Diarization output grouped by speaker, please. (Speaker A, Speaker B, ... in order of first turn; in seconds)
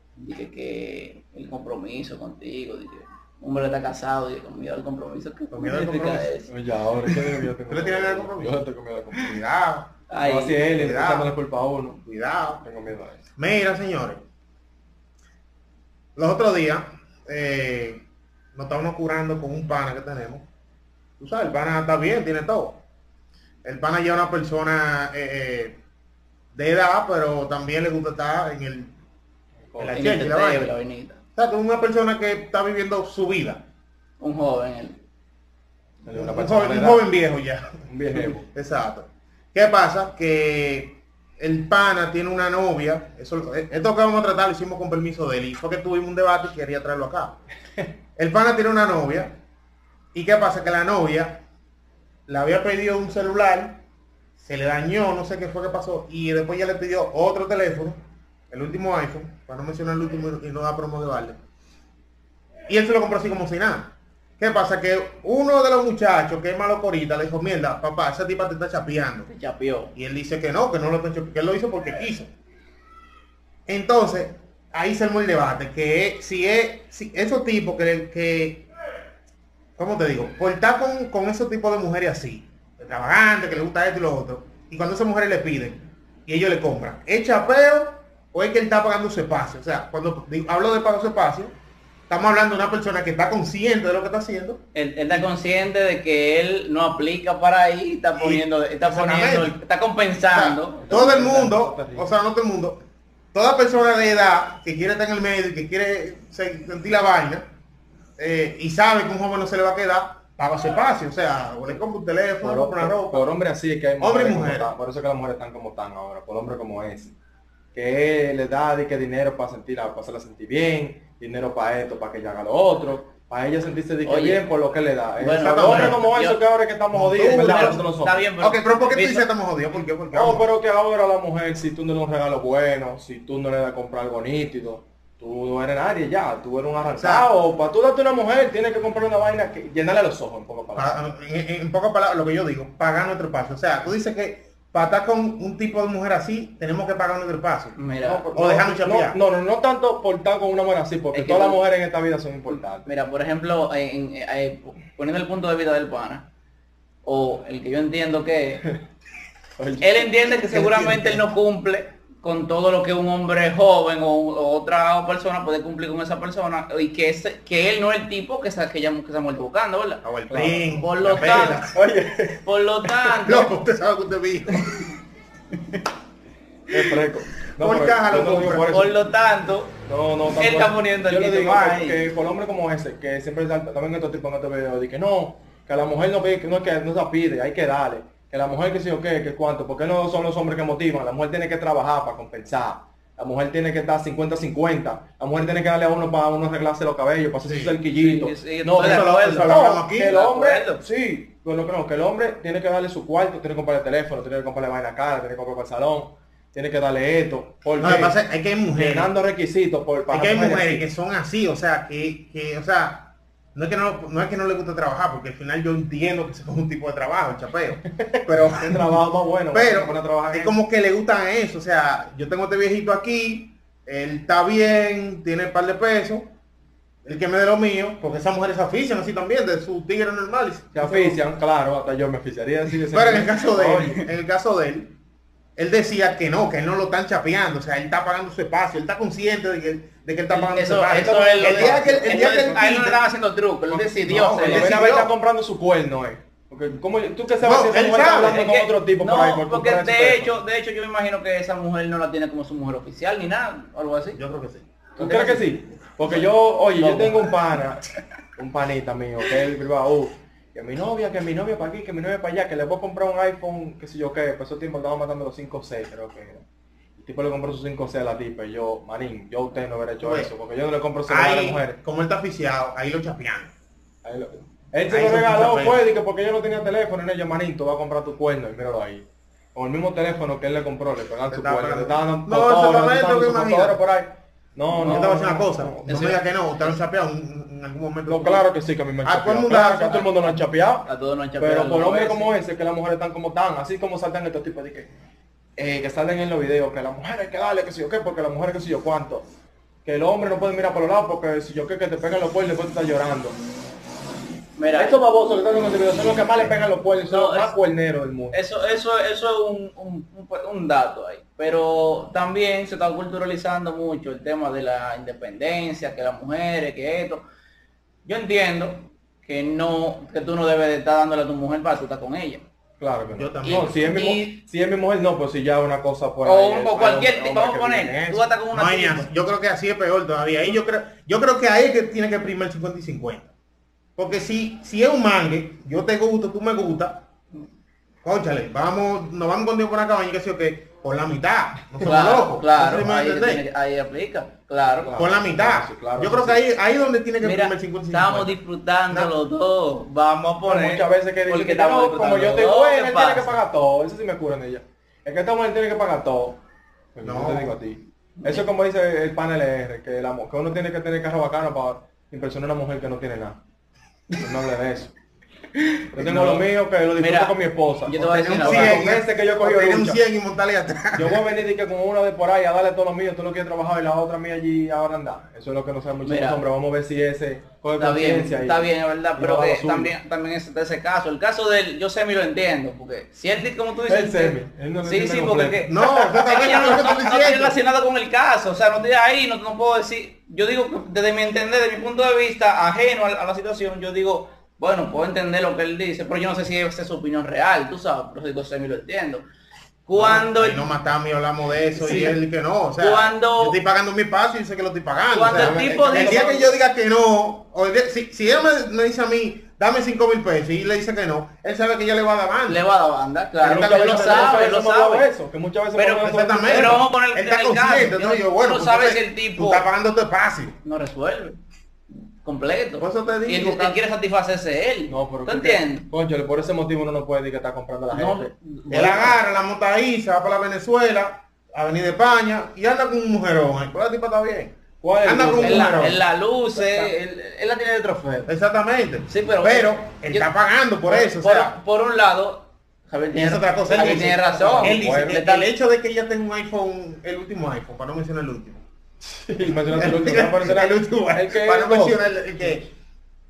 Speaker A: 0.2-6.5, 10.1-10.6, 29.9-31.2, 34.2-35.0, 69.3-69.9, 94.7-101.0, 124.0-124.4, 125.2-126.4, 127.2-129.2, 147.8-148.3, 151.1-151.6, 152.5-156.2, 157.1-158.7, 159.8-170.0, 170.8-171.7, 172.4-173.5, 178.7-179.7, 180.4-182.0, 197.9-200.8, 240.3-244.7, 248.2-254.2, 255.0-255.5, 256.8-257.4, 290.9-292.3, 304.6-305.0, 307.1-307.5, 308.3-317.2, 318.1-322.4, 323.4-324.4, 326.2-329.1, 341.8-344.9, 347.2-353.3, 365.6-366.4, 367.0-368.9, 376.0-376.4, 377.8-399.2, 399.9-400.7, 401.8-402.1, 402.8-403.6, 405.1-406.5, 412.5-415.1, 415.8-419.6, 420.6-421.4, 422.2-425.9, 427.9-429.2, 435.4-438.3, 439.1-440.3, 440.9-445.5
Speaker B: 5.5-6.3, 7.7-8.6, 9.1-9.9, 10.7-11.3, 12.0-12.6, 13.4-14.2, 16.2-18.0, 18.6-20.4, 21.2-22.8, 23.6-25.8, 26.5-28.9, 29.8-30.7, 31.4-33.6, 36.1-47.4, 48.2-49.4, 50.1-51.4, 52.3-53.8, 54.4-58.0, 58.5-61.4, 62.7-69.3, 70.0-72.3, 73.7-78.7, 79.8-91.5, 92.1-94.6, 98.2-99.6, 100.3-102.8, 103.3-107.5, 108.2-113.3, 114.0-114.7, 125.4-126.0, 126.9-127.8, 128.4-130.4, 137.0-137.3, 140.8-147.8, 148.3-149.2, 160.5-161.2, 170.0-171.8, 173.3-174.7, 177.6-178.8, 197.4-197.8, 198.8-200.2, 207.8-209.1, 210.1-217.8, 219.5-226.3, 227.1-231.2, 232.9-234.9, 235.6-243.0, 243.9-245.1, 247.4-248.5, 254.2-254.7, 270.0-270.3, 271.1-273.5, 274.9-275.8, 281.3-283.8, 284.8-288.5, 289.0-290.1, 323.2-323.8, 328.5-333.3, 334.0-337.0, 338.0-343.4, 345.0-348.4, 357.0-357.6, 368.2-371.2, 385.7-387.6, 399.9-412.6, 413.4-414.6, 416.0-420.6, 422.8-423.8, 428.7-436.0, 438.3-441.6, 443.2-448.6, 449.7-452.7
Speaker C: 6.5-9.4, 10.2-12.0, 12.6-13.2, 29.7-30.0, 36.0-37.1, 37.9-38.5, 100.8-102.1, 112.4-117.1, 117.8-128.2, 130.1-140.9, 148.0-152.9, 159.6-160.1, 170.3-173.2, 176.7-179.0, 179.8-208.2, 208.7-210.8, 218.1-220.5, 230.7-234.1, 241.2-242.4, 244.2-250.3, 255.0-257.9, 258.4-266.4, 267.0-271.8, 274.1-286.2, 288.1-290.9, 291.4-294.9, 295.6-299.2, 299.9-303.4, 304.7-308.4, 322.8-328.3, 344.9-346.4, 350.4-356.4, 356.9-363.4, 364.2-364.9, 365.9-370.0, 371.0-379.9, 383.9-385.7, 401.8-402.2, 405.3-406.3, 413.4-416.8, 424.9-428.3, 434.8-436.0, 436.5-436.9, 444.2-445.2, 449.0-452.5